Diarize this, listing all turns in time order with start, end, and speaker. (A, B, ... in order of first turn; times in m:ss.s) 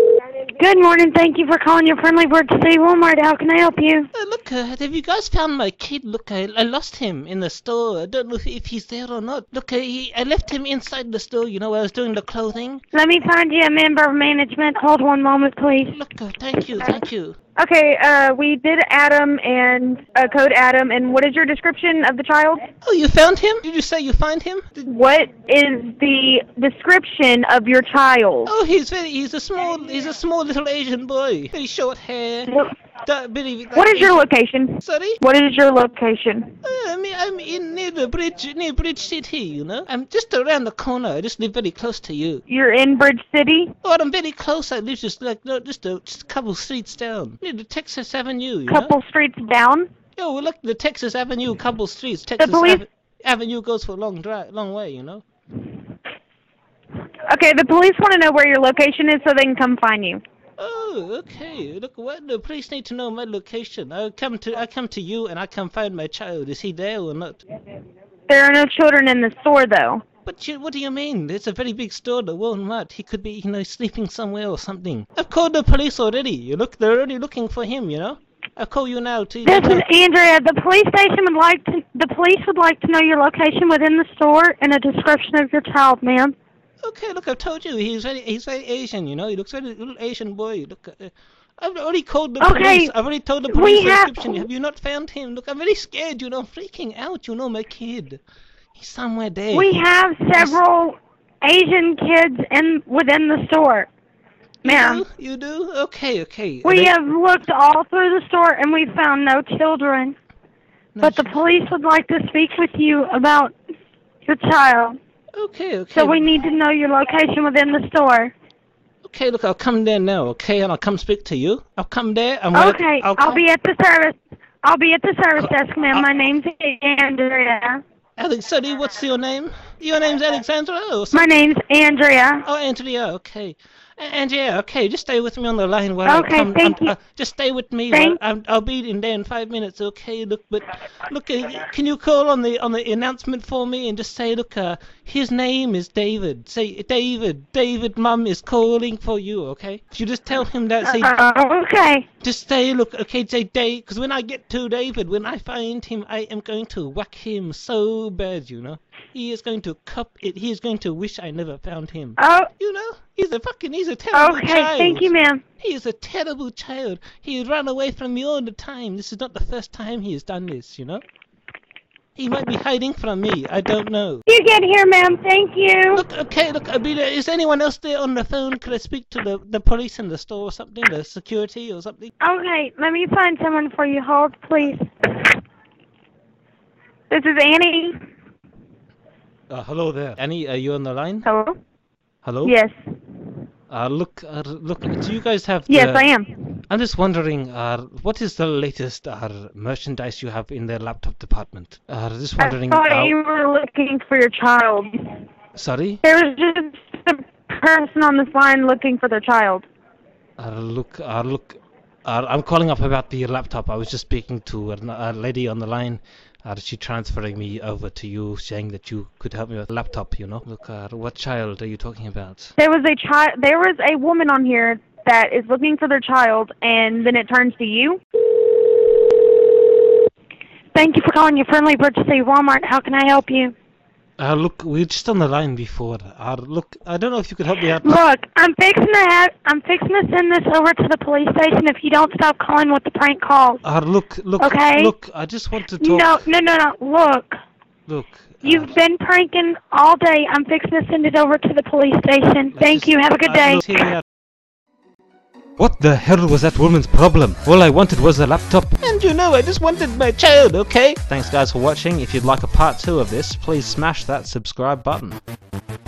0:00.5-0:04.1 A
0:04.1-0:12.8 B
0:12.9-0:16.0 A
0:15.9-0:17.4 B
0:17.6-0:22.6 C
0:22.8-0:24.9 B
0:24.9-0:28.5 C
0:28.4-0:34.3 B
0:33.7-0:36.5 C
0:34.8-0:35.2 B
0:36.6-0:42.4 B
0:42.5-0:43.7 C
0:43.8-0:48.9 B
0:48.7-0:49.9 C
0:50.2-0:55.2 B
0:52.4-0:52.8 C
0:57.3-1:00.2 C
1:00.6-1:07.4 B
1:08.3-1:10.0 C
1:10.2-1:19.8 B
1:19.4-1:26.4 A
1:26.8-1:38.2 B
1:32.4-1:32.9 A
1:33.5-1:34.4 A
1:38.7-1:39.8 B
1:39.5-1:43.9 A
1:40.3-1:40.6 B
1:44.6-1:46.9 B
1:44.6-1:45.0 A
1:46.6-1:50.2 A
1:50.9-1:51.4 B
1:51.0-1:53.5 A
1:54.2-1:55.0 A
1:55.3-1:56.3 B
1:55.9-1:58.3 A
1:59.0-2:03.4 B
2:02.5-2:07.8 A
2:05.4-2:06.0 B
2:08.2-2:11.3 B
2:11.1-2:12.4 A
2:12.4-2:31.1 B
2:16.0-2:16.9 A
2:17.9-2:18.2 A
2:30.8-2:32.1 A
2:32.2-2:51.0 B
2:42.2-2:42.5 A
2:44.1-2:45.4 A
2:52.2-2:54.2 B
2:54.3-2:56.0 A
2:55.9-3:02.1 B
3:02.2-3:05.2 A
3:07.1-3:08.0 C
3:09.5-3:11.3 B
3:11.2-3:11.6 C
3:12.2-3:12.6 B
3:12.4-3:12.7 C
3:13.7-3:16.1 B
3:15.7-3:16.3 C
3:16.7-3:23.1 B
3:22.4-3:25.0 C
3:25.5-3:26.0 B
3:26.0-3:29.7 C
3:30.4-3:42.5 B
3:42.6-3:48.0 C
3:50.7-3:53.5 A
3:54.2-3:58.0 B
3:57.8-4:03.6 A
4:03.6-4:06.2 B
4:04.4-4:04.9 A
4:05.8-4:07.4 A
4:07.9-4:08.7 B
4:08.4-4:13.9 A
4:12.5-4:14.0 B
4:15.6-4:25.2 B